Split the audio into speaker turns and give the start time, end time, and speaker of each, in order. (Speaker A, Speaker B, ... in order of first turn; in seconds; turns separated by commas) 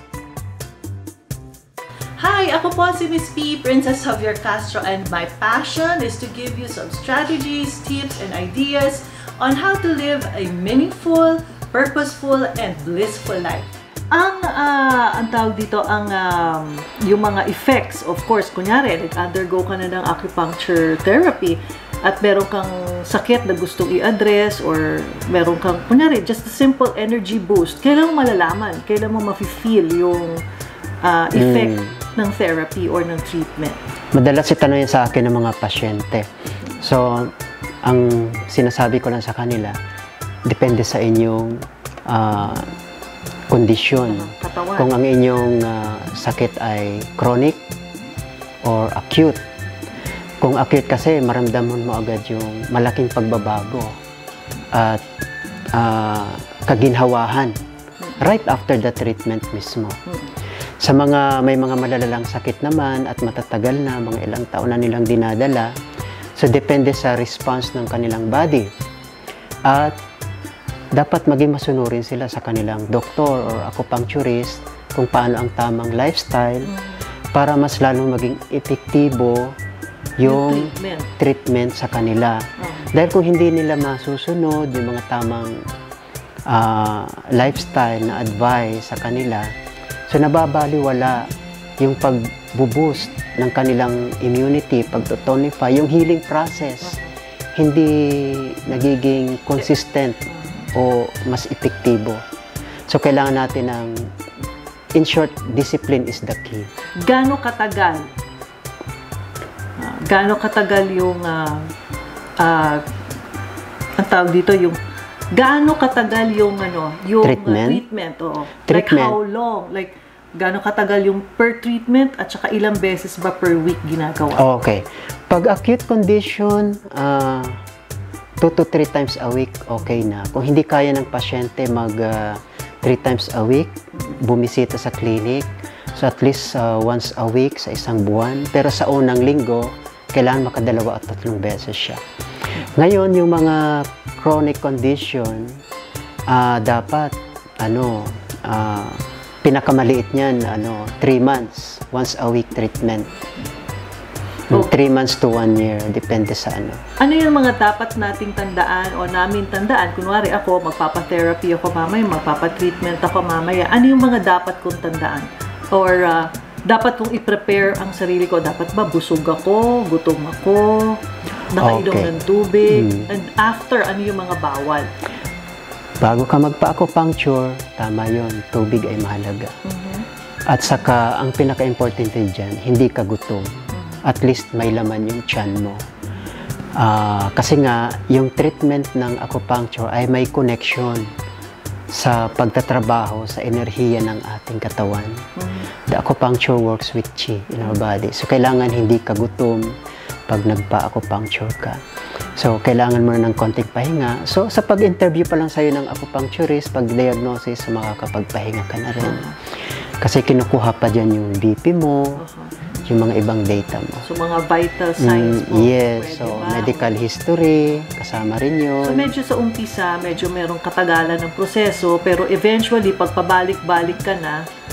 Speaker A: 2.2-30.4, Speaker A: 31.0-33.8, Speaker B: 31.3-32.0, Speaker B: 34.1-37.3, Speaker B: 37.8-39.8, Speaker B: 40.5-42.7, Speaker B: 43.5-47.6, Speaker A: 44.0-44.9, Speaker B: 48.6-49.4, Speaker B: 50.4-53.9, Speaker B: 54.7-55.0, Speaker B: 55.7-57.5, Speaker B: 58.2-60.0, Speaker B: 60.8-65.7, Speaker B: 66.4-68.7, Speaker B: 69.7-70.0, Speaker B: 70.9-76.7, Speaker A: 76.7-77.0, Speaker B: 77.3-79.5, Speaker B: 80.2-85.6, Speaker A: 80.2-81.1, Speaker A: 82.6-82.9, Speaker B: 86.5-89.5, Speaker B: 90.1-97.0, Speaker A: 96.8-97.1, Speaker B: 97.5-102.2, Speaker A: 100.3-100.7, Speaker B: 102.9-104.1, Speaker B: 104.9-106.7, Speaker A: 107.0-108.0, Speaker A: 109.8-111.7, Speaker A: 112.4-112.8, Speaker A: 114.0-114.8, Speaker A: 115.3-124.5, Speaker B: 117.2-117.8, Speaker B: 118.7-119.2, Speaker B: 124.4-127.6, Speaker B: 128.4-142.0, Speaker B: 142.7-145.6, Speaker B: 146.3-153.1, Speaker B: 154.5-156.8, Speaker A: 157.0-171.0, Speaker A: 171.5-174.9, Speaker B: 171.6-172.1, Speaker B: 172.7-173.1, Speaker B: 176.0-179.5, Speaker A: 179.6-180.1, Speaker B: 180.5-185.8, Speaker A: 183.7-184.0, Speaker B: 186.8-191.1, Speaker B: 191.9-195.2, Speaker A: 195.4-195.7, Speaker B: 195.9-199.7, Speaker B: 200.3-201.8, Speaker B: 202.3-209.2, Speaker A: 209.0-209.3, Speaker B: 210.0-212.2, Speaker A: 212.2-212.5, Speaker B: 212.8-214.0, Speaker A: 214.0-216.9, Speaker B: 215.0-219.1, Speaker A: 218.8-224.4